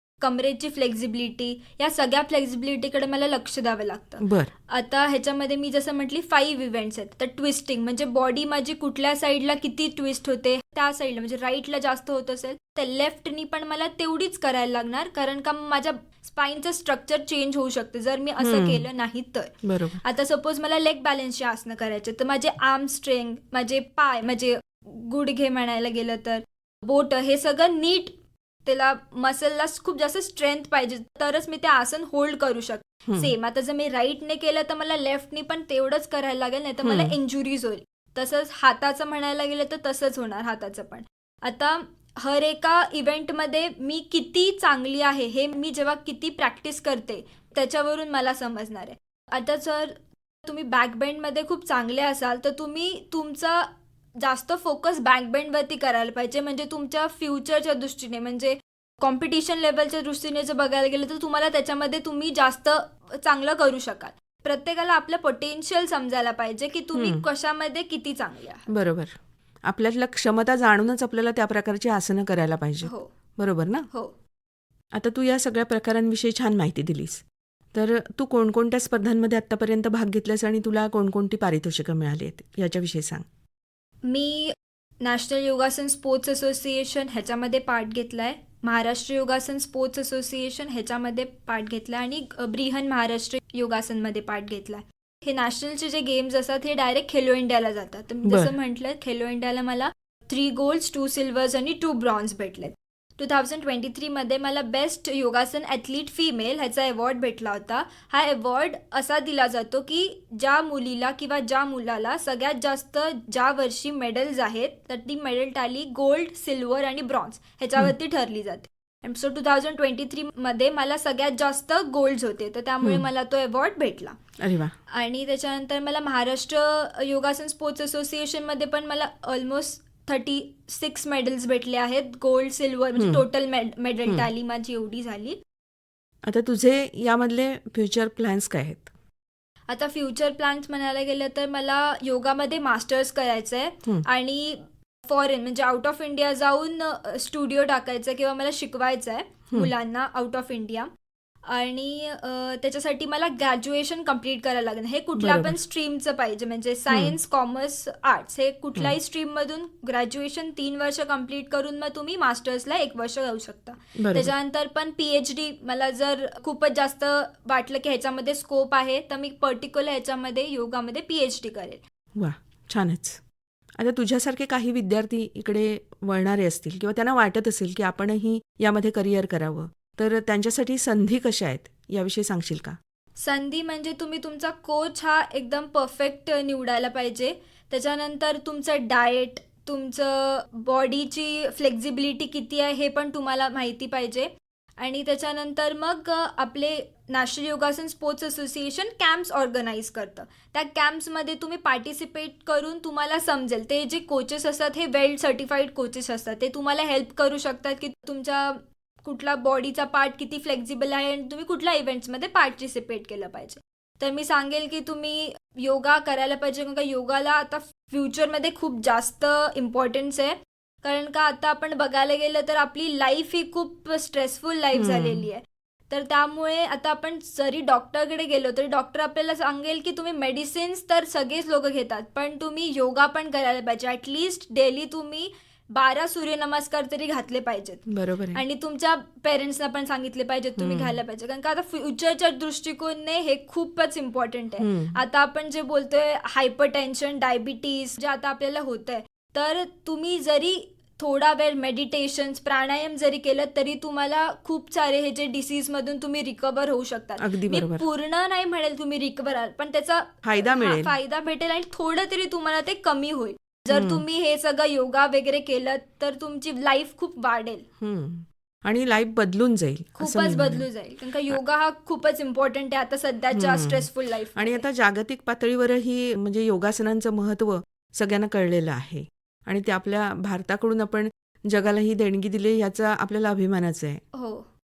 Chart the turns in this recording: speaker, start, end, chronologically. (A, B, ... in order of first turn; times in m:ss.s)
0:00.2-0:28.2 A
0:04.2-0:04.5 B
0:18.4-0:18.8 B
0:19.6-0:20.0 B
0:28.7-1:08.7 A
0:33.1-0:33.3 B
0:36.8-0:37.2 B
1:06.9-1:07.2 B
1:08.7-1:09.1 B
1:09.7-1:13.9 B
1:12.8-1:13.1 A
1:15.0-1:23.2 B
1:24.0-2:04.2 A
1:38.2-1:38.5 B
2:04.4-2:04.7 B
2:04.9-2:15.4 A
2:13.0-2:13.2 B
2:16.3-2:18.9 B
2:19.7-2:30.9 A
2:31.5-2:51.8 A
2:35.2-2:35.5 B
2:36.9-2:37.2 B
2:44.0-2:44.3 B
2:52.2-2:53.2 B
2:53.8-3:02.8 B
3:03.2-4:27.7 A
3:44.7-3:45.3 B
3:57.9-3:58.4 B
4:00.6-4:01.0 B
4:04.6-4:05.0 B
4:17.2-4:17.8 B
4:20.2-4:21.0 B
4:23.7-4:24.0 B
4:27.8-4:30.7 B
4:30.0-4:34.6 A
4:33.4-4:44.0 B
4:44.1-4:44.5 A